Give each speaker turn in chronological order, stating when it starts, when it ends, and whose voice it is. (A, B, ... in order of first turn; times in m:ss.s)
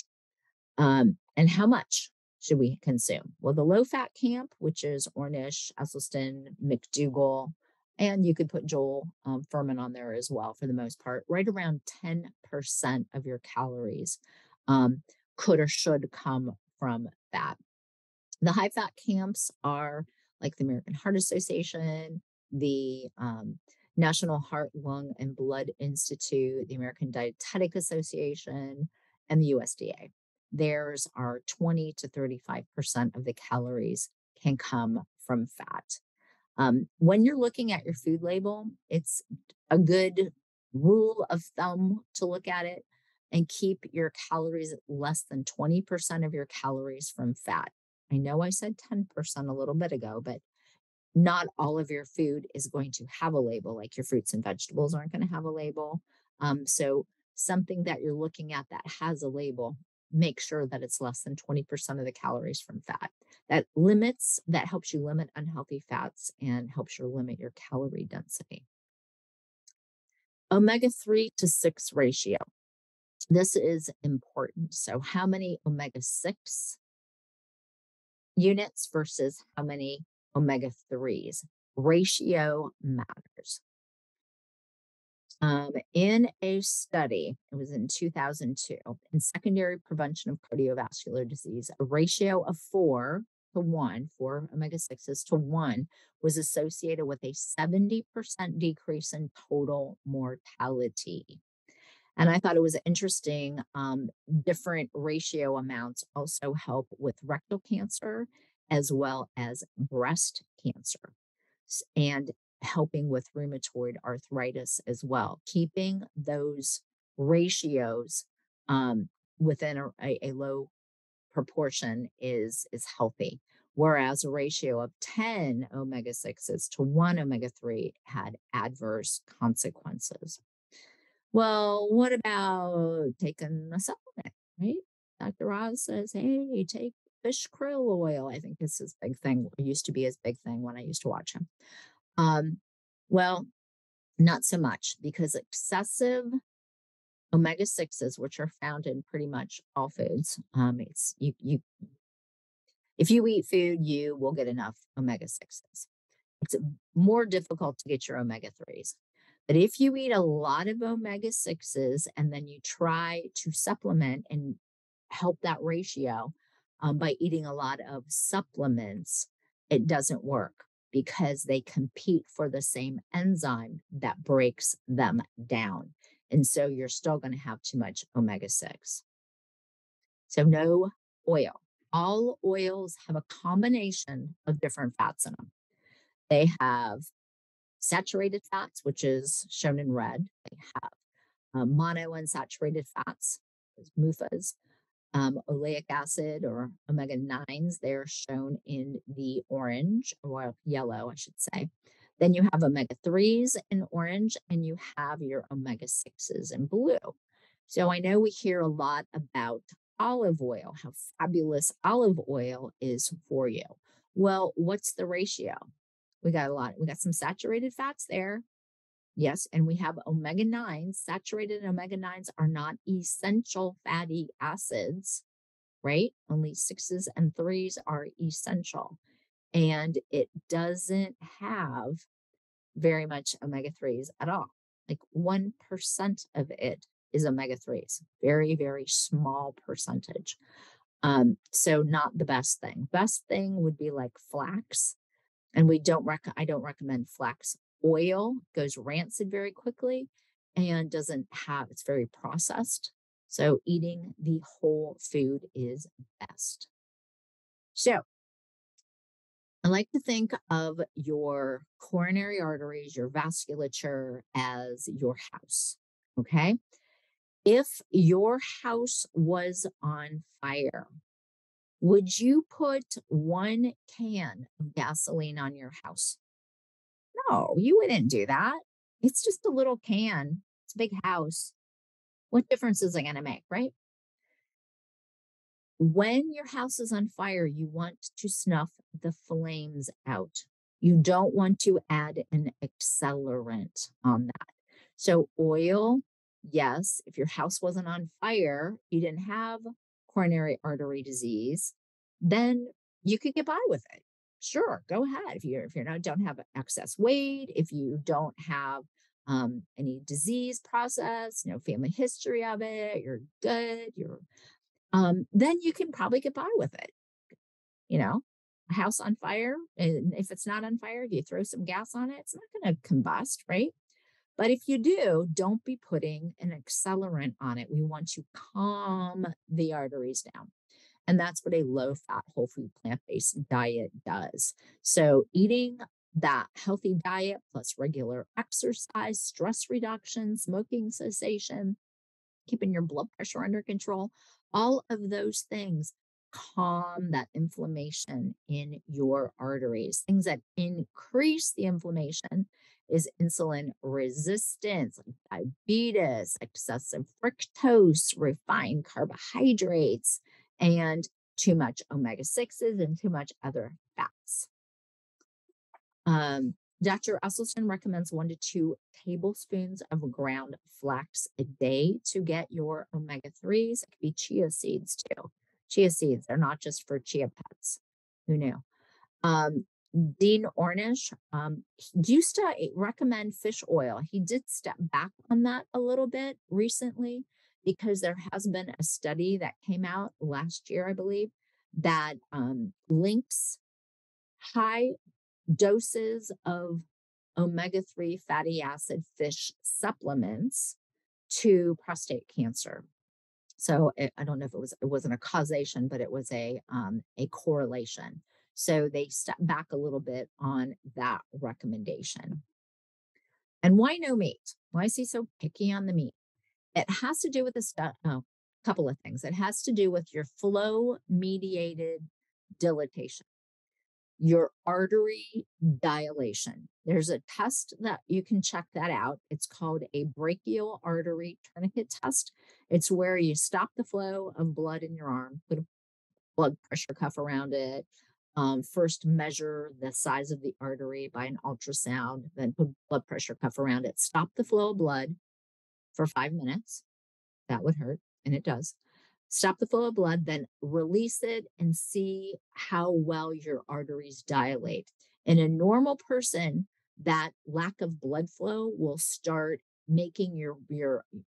0:00.8-0:17.6 A
0:18.4-0:36.0 A
0:36.6-0:50.4 A
0:51.2-1:08.6 A
1:10.5-1:12.4 A
1:13.3-1:16.8 A
1:18.4-1:23.6 A
1:25.4-1:41.4 A
1:42.2-1:51.1 A
1:51.7-2:00.7 A
2:01.3-2:10.4 A
2:11.3-2:21.4 A
2:22.2-2:23.5 A
2:24.2-2:26.4 A
2:27.3-2:31.7 A
2:33.0-2:35.9 A
2:36.4-2:39.0 A
2:39.5-2:44.6 A
2:45.1-2:59.0 A
3:00.3-3:05.5 A
3:06.3-3:07.1 A
3:07.8-3:10.9 A
3:11.5-3:14.5 A
3:15.1-3:27.2 A
3:27.7-3:35.6 A
3:36.2-3:38.4 A
3:39.2-3:45.2 A
3:45.8-3:49.0 A
3:49.5-3:52.0 A
3:52.8-4:00.4 A
4:01.0-4:05.0 A
4:05.6-4:16.7 A
4:17.8-4:18.0 A
4:19.6-4:26.6 A
4:27.4-4:30.9 A
4:31.8-4:36.2 A
4:37.2-4:41.6 A
4:42.3-4:43.7 A
4:45.8-5:14.2 A
5:14.9-5:16.9 A
5:17.9-5:23.7 A
5:24.4-5:30.5 A
5:31.1-5:41.8 A
5:42.5-6:04.5 A
6:06.1-6:18.6 A
6:19.2-6:33.6 A
6:34.4-6:34.9 A
6:35.6-6:36.8 A
6:37.4-6:40.8 A
6:41.3-6:42.9 A
6:43.6-6:52.4 A
6:53.6-6:56.2 A
6:56.8-7:02.1 A
7:02.6-7:03.3 A
7:04.2-7:15.6 A
7:16.4-7:25.2 A
7:26.0-7:26.8 A
7:27.5-7:28.8 A
7:29.3-7:41.1 A